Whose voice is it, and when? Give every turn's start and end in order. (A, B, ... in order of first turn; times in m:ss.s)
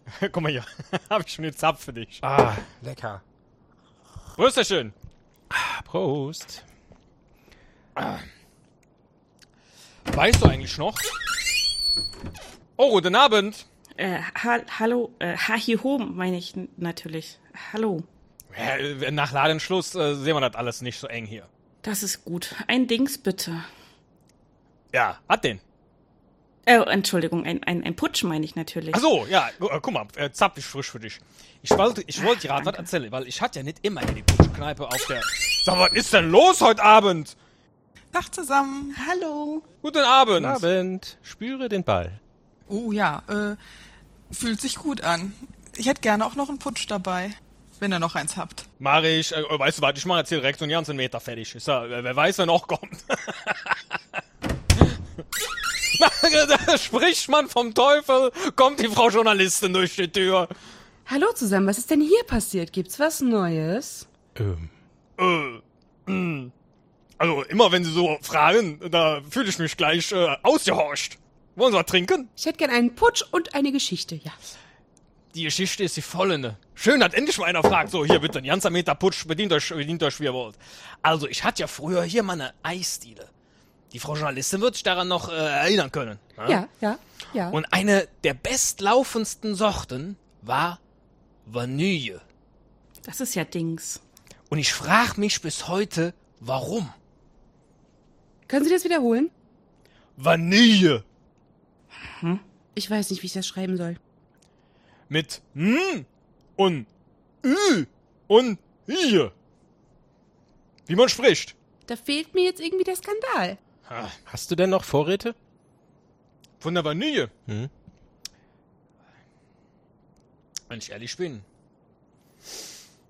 0:00.2-0:02.2 A
0:02.2-0:03.2 B
0:04.4-0:04.9 A
0:05.5-0:06.6 B
0:08.0-0:08.2 A
0:10.1-0:11.1 A
0:12.8-0:13.6 A
0:14.0-0:18.0 C
0:18.5-0:21.5 A
0:21.8-0:23.6 C
0:24.9-0:25.6 A
0:26.6-0:29.0 C
0:28.9-0:37.3 A
0:32.1-0:32.9 C
0:38.1-0:39.0 D
0:38.9-0:39.6 C
0:39.8-0:40.6 A
0:40.3-0:42.2 B
0:42.7-0:43.6 D
0:44.3-0:48.6 D
0:48.8-0:54.2 A
0:55.9-1:00.5 A
1:01.0-1:04.1 E
1:04.4-1:04.7 B
1:05.2-1:06.5 A
1:07.2-1:12.3 A
1:12.4-1:14.4 E
1:15.3-1:23.3 A
1:23.9-1:26.6 A
1:26.4-1:27.6 E
1:27.5-1:30.8 A
1:31.4-1:32.2 A
1:33.0-1:34.0 C
1:34.5-1:36.9 A
1:38.5-1:39.3 E
1:40.2-1:41.0 A
1:42.0-1:42.4 C
1:42.7-1:44.0 E
1:45.1-1:46.0 A
1:46.6-1:46.9 A
1:47.4-1:49.3 A
1:50.9-1:51.5 A
1:51.9-1:53.6 E
1:53.9-1:54.1 A
1:54.3-1:55.4 B
1:56.6-1:57.3 A
2:00.7-2:01.4 A